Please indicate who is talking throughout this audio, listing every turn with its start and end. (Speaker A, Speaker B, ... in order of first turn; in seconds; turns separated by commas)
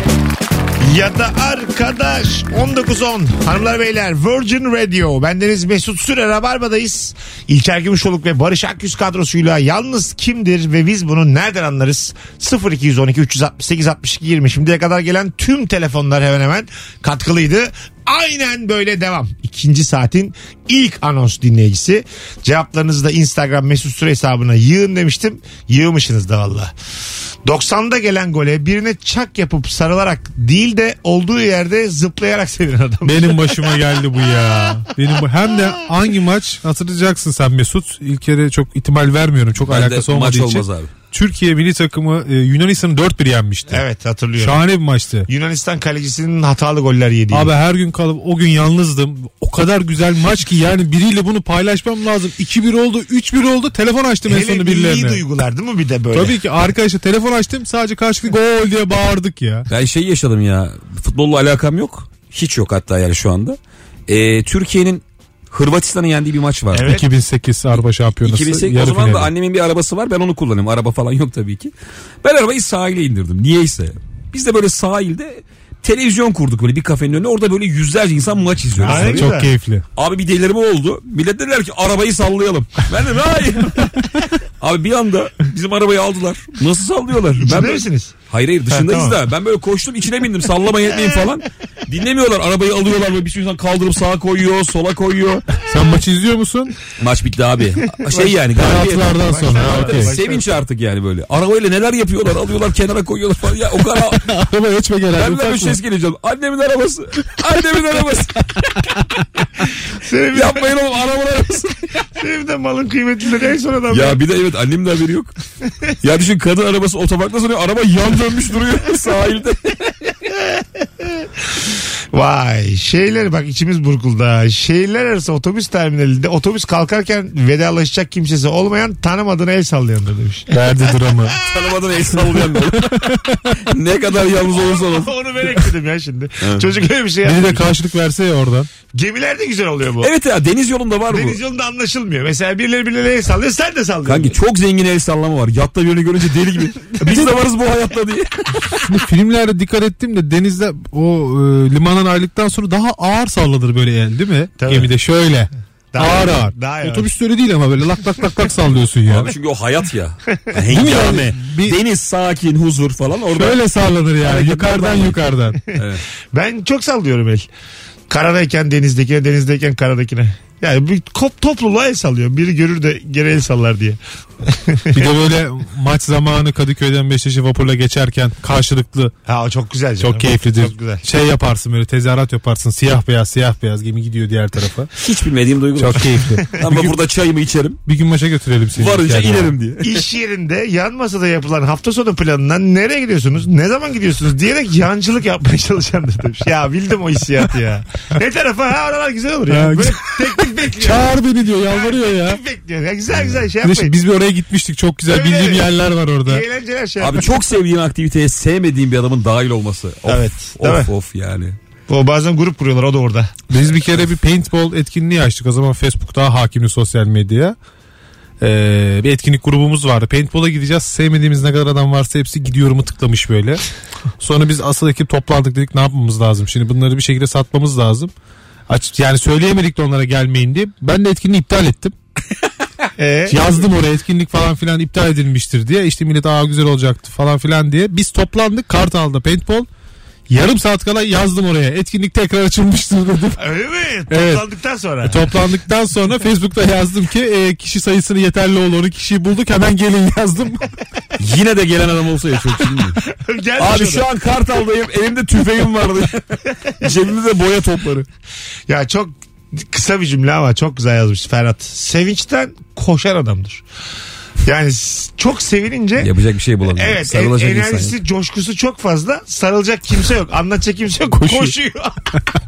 Speaker A: 0.8-26.7, Speaker A: 27.4-33.8, Speaker B: 33.0-43.8, Speaker C: 39.6-40.9, Speaker A: 43.7-44.7, Speaker B: 44.4-45.3, Speaker A: 45.3-47.5, Speaker B: 47.3-55.2, Speaker A: 54.3-56.4, Speaker B: 56.1-59.7, Speaker C: 59.7-67.0, Speaker A: 66.7-67.0, Speaker B: 66.9-69.3, Speaker C: 68.2-79.3, Speaker A: 78.8-79.5, Speaker B: 78.9-79.8, Speaker C: 80.0-84.1, Speaker C: 84.6-95.5, Speaker A: 87.4-88.1, Speaker A: 88.7-89.2, Speaker B: 95.7-96.8, Speaker C: 97.0-104.3, Speaker A: 98.0-100.6, Speaker B: 98.5-100.1, Speaker B: 104.1-105.8, Speaker C: 105.2-108.6, Speaker A: 110.0-110.7, Speaker C: 110.3-111.9, Speaker A: 112.2-114.2, Speaker C: 113.9-115.3, Speaker C: 116.0-120.1, Speaker A: 120.5-121.3, Speaker A: 122.1-131.8, Speaker B: 130.5-131.4, Speaker C: 131.4-135.1, Speaker B: 132.7-133.5, Speaker A: 134.3-137.7, Speaker C: 136.4-136.7, Speaker B: 137.2-138.7, Speaker A: 138.9-140.1, Speaker C: 140.0-141.4, Speaker A: 141.1-144.4, Speaker C: 144.1-149.0, Speaker B: 148.9-159.3, Speaker A: 154.6-154.9, Speaker A: 155.9-157.1, Speaker C: 159.1-163.6, Speaker B: 160.7-161.8, Speaker B: 163.3-165.6, Speaker C: 164.2-165.2, Speaker C: 165.7-166.0, Speaker A: 166.3-167.5, Speaker A: 168.1-175.1, Speaker B: 174.9-179.1, Speaker A: 179.3-181.0, Speaker B: 180.0-184.9, Speaker C: 185.0-187.8, Speaker B: 185.8-187.0, Speaker B: 187.9-189.5, Speaker C: 188.8-190.0, Speaker A: 189.8-203.9, Speaker B: 199.5-200.2, Speaker B: 200.8-202.4, Speaker B: 203.6-206.4, Speaker A: 205.1-205.7, Speaker A: 206.2-207.3, Speaker C: 207.0-211.6, Speaker A: 210.1-210.9, Speaker A: 211.9-213.3, Speaker B: 213.5-217.6, Speaker B: 218.4-223.6, Speaker B: 224.2-228.1, Speaker B: 228.7-231.9, Speaker A: 233.0-233.4, Speaker B: 233.3-239.7, Speaker B: 240.3-243.4, Speaker A: 243.4-245.2, Speaker B: 244.1-244.4, Speaker B: 245.1-250.7, Speaker C: 251.2-253.0, Speaker A: 253.1-254.1, Speaker C: 253.6-258.1, Speaker A: 258.7-263.6, Speaker A: 264.4-266.1, Speaker C: 266.0-268.0, Speaker A: 266.7-272.2, Speaker B: 271.1-271.5